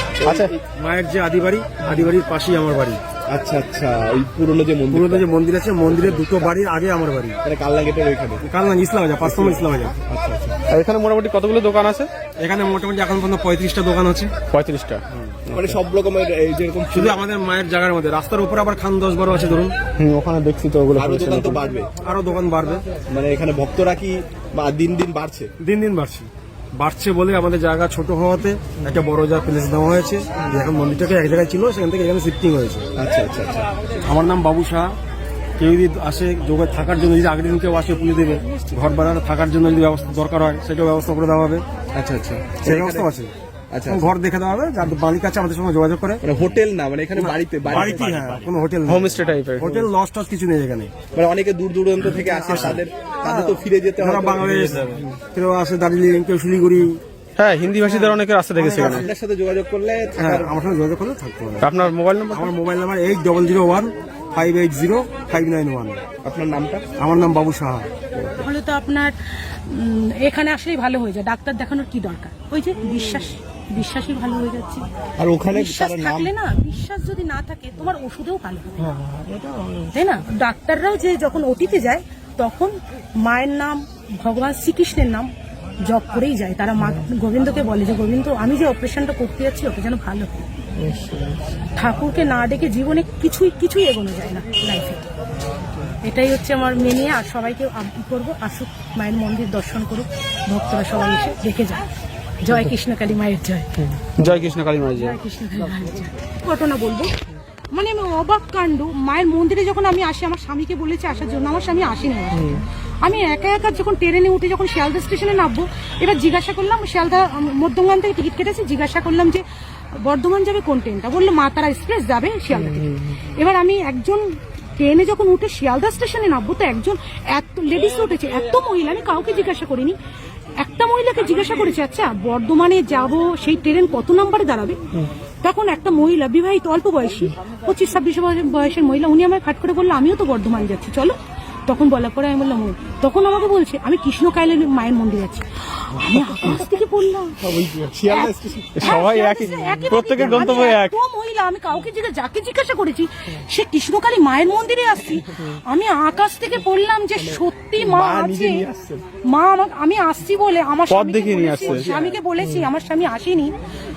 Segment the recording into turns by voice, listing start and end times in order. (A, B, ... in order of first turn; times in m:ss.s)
0:00.2-0:00.6 A
0:00.2-0:00.5 B
0:00.7-0:03.0 C
0:03.3-0:05.3 A
0:04.9-0:07.4 C
0:05.9-0:06.5 A
0:07.4-0:08.5 A
0:08.4-0:10.0 C
0:09.2-0:10.6 A
0:10.7-0:12.1 B
0:12.4-0:14.3 C
0:14.5-0:15.0 B
0:15.1-0:15.4 C
0:15.5-0:17.2 A
0:16.9-0:19.8 C
0:20.0-0:21.6 B
0:21.0-0:21.9 A
0:22.0-0:22.8 C
0:23.1-0:25.5 A
0:25.6-0:32.9 C
0:33.0-0:33.7 A
0:34.0-0:34.9 C
0:35.6-0:41.6 C
0:41.9-0:43.1 A
0:42.6-0:43.3 C
0:43.7-0:44.1 A
0:43.9-0:46.2 C
0:46.2-0:48.5 A
0:47.2-0:50.9 C
0:48.9-0:49.8 B
0:51.1-0:55.0 A
0:52.1-0:57.0 C
0:57.4-0:59.1 B
0:57.8-0:59.1 C
0:58.8-1:00.6 A
1:00.2-1:01.7 C
1:01.6-1:02.5 B
1:02.3-1:06.0 C
1:06.2-1:06.9 A
1:07.0-1:07.9 C
1:08.1-1:08.5 A
1:08.4-1:09.2 D
1:09.7-1:14.8 D
1:15.2-1:16.3 A
1:15.5-1:18.8 D
1:19.9-1:25.3 D
1:25.8-1:30.5 D
1:31.8-1:35.0 D
1:36.0-1:41.8 D
1:42.4-1:43.8 D
1:44.2-1:45.2 B
1:45.0-1:47.1 D
1:47.7-1:59.4 D
2:00.0-2:04.2 D
2:04.8-2:10.0 D
2:10.6-2:14.8 D
2:15.4-2:21.2 D
2:21.7-2:27.4 D
2:27.4-2:29.0 A
2:28.1-2:38.7 D
2:28.8-2:30.9 B
2:37.8-2:39.0 A
2:39.3-2:43.6 D
2:40.9-2:41.9 B
2:41.6-2:42.2 A